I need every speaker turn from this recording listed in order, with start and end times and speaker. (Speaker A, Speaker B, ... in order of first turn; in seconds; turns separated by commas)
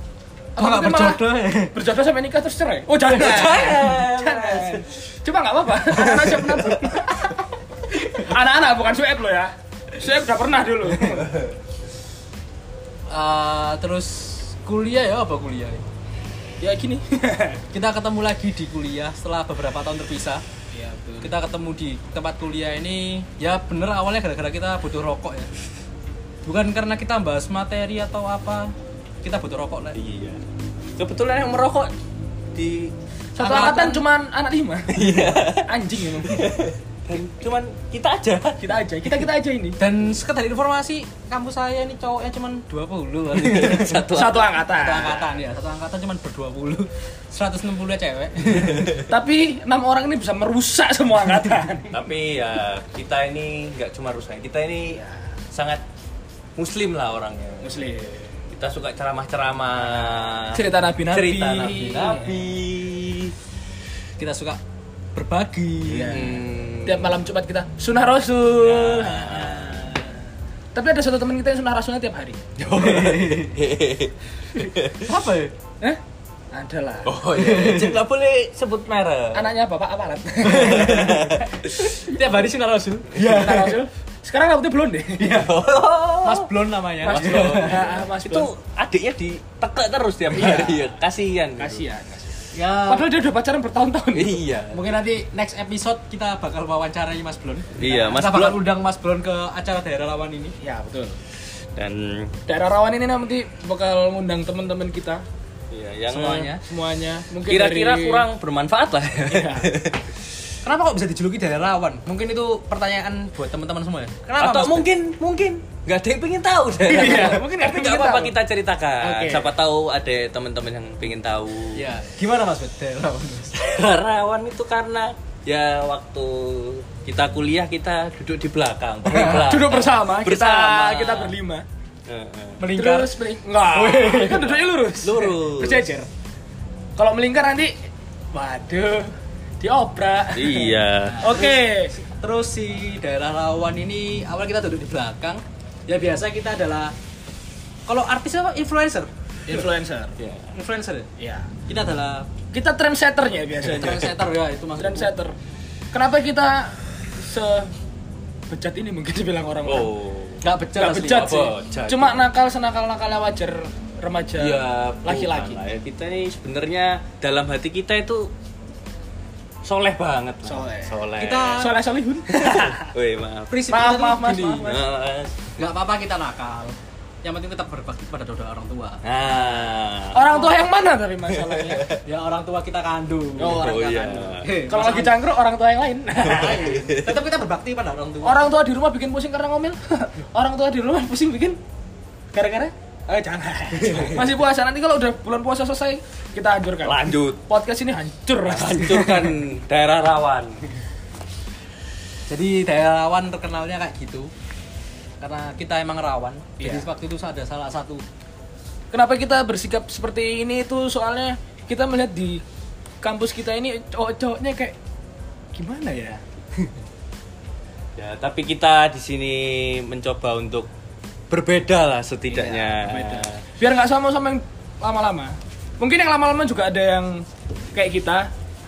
Speaker A: 0.6-11.4, Speaker B: 0.6-1.9, Speaker B: 3.1-3.9, Speaker C: 3.1-4.9, Speaker B: 6.0-6.4, Speaker B: 13.1-15.8, Speaker A: 16.6-17.6, Speaker B: 17.7-20.4, Speaker A: 20.7-21.3, Speaker B: 21.2-25.5, Speaker B: 26.4-30.0, Speaker C: 29.9-30.4, Speaker C: 31.0-31.9, Speaker C: 32.5-32.9, Speaker A: 33.4-36.5, Speaker B: 33.4-34.0, Speaker C: 34.9-35.7, Speaker C: 36.2-39.3, Speaker A: 38.6-39.8, Speaker B: 39.8-44.1, Speaker C: 43.3-44.6, Speaker A: 44.1-45.3, Speaker B: 44.7-49.1, Speaker A: 49.0-52.0, Speaker C: 51.9-55.0, Speaker A: 54.9-55.2, Speaker C: 55.5-55.8, Speaker C: 56.6-57.8, Speaker A: 57.6-58.2, Speaker C: 58.5-63.3, Speaker A: 59.9-62.3, Speaker B: 61.8-62.2, Speaker B: 64.2-64.6, Speaker B: 65.1-66.1, Speaker C: 65.8-67.2, Speaker A: 66.0-70.0, Speaker C: 68.5-70.1, Speaker A: 70.7-72.4, Speaker C: 72.6-74.9, Speaker B: 72.7-73.5, Speaker B: 75.0-75.5, Speaker A: 76.5-77.1, Speaker C: 77.0-79.5, Speaker B: 77.3-78.0, Speaker A: 79.3-81.4, Speaker B: 80.4-83.8, Speaker C: 80.5-81.9, Speaker A: 83.1-85.4, Speaker B: 85.2-85.7, Speaker C: 85.3-86.4, Speaker B: 86.2-88.0, Speaker C: 87.0-91.8, Speaker A: 87.0-88.5, Speaker A: 90.3-90.9, Speaker A: 91.6-94.4, Speaker B: 92.5-93.2, Speaker C: 94.1-94.9, Speaker B: 94.7-100.5, Speaker C: 97.7-98.6, Speaker A: 100.6-101.2, Speaker C: 101.8-102.4, Speaker A: 102.5-105.2, Speaker C: 105.7-106.5, Speaker B: 106.1-106.6, Speaker A: 106.6-108.3, Speaker C: 107.5-110.0, Speaker A: 109.2-109.7, Speaker B: 110.6-114.9, Speaker C: 114.4-121.9, Speaker A: 116.9-118.3, Speaker B: 117.0-117.6, Speaker B: 119.0-119.5, Speaker B: 121.7-123.6, Speaker C: 123.6-131.3, Speaker A: 129.1-131.7, Speaker B: 130.3-131.2, Speaker C: 132.1-132.7, Speaker B: 132.6-133.1, Speaker A: 132.7-136.1, Speaker B: 133.7-134.6, Speaker C: 135.0-135.9, Speaker A: 137.0-137.7, Speaker A: 138.3-141.9, Speaker C: 140.3-141.2, Speaker B: 141.2-146.9, Speaker B: 147.9-149.1, Speaker A: 149.5-150.1, Speaker C: 150.2-150.4, Speaker B: 150.5-151.1, Speaker A: 151.2-151.5, Speaker B: 151.6-152.3, Speaker A: 152.5-154.1, Speaker B: 153.7-155.1, Speaker A: 154.8-155.3, Speaker A: 155.9-157.7, Speaker A: 158.5-159.9, Speaker C: 159.6-160.4, Speaker B: 160.4-161.5, Speaker A: 160.8-165.6, Speaker C: 161.1-162.3, Speaker C: 164.4-168.3, Speaker C: 169.6-171.6, Speaker A: 170.4-170.9, Speaker B: 171.2-171.8, Speaker A: 171.6-172.9, Speaker C: 172.3-173.6, Speaker B: 173.5-174.7, Speaker A: 173.7-174.8, Speaker C: 174.6-175.4, Speaker B: 175.6-179.0, Speaker C: 179.0-180.5, Speaker A: 180.1-181.8, Speaker C: 181.3-182.0, Speaker B: 182.0-183.6, Speaker A: 183.4-186.8, Speaker C: 183.5-184.5, Speaker B: 184.4-185.2, Speaker C: 186.2-187.1, Speaker B: 186.2-188.5, Speaker A: 188.2-191.6, Speaker A: 192.3-199.3, Speaker B: 193.8-194.3, Speaker C: 196.8-197.4, Speaker C: 198.4-200.6, Speaker B: 202.3-204.3, Speaker B: 205.2-208.0, Speaker A: 206.6-206.8, Speaker A: 208.9-212.4, Speaker A: 213.0-214.8, Speaker A: 215.5-216.2, Speaker C: 218.0-220.7, Speaker C: 221.3-223.4, Speaker A: 222.3-228.3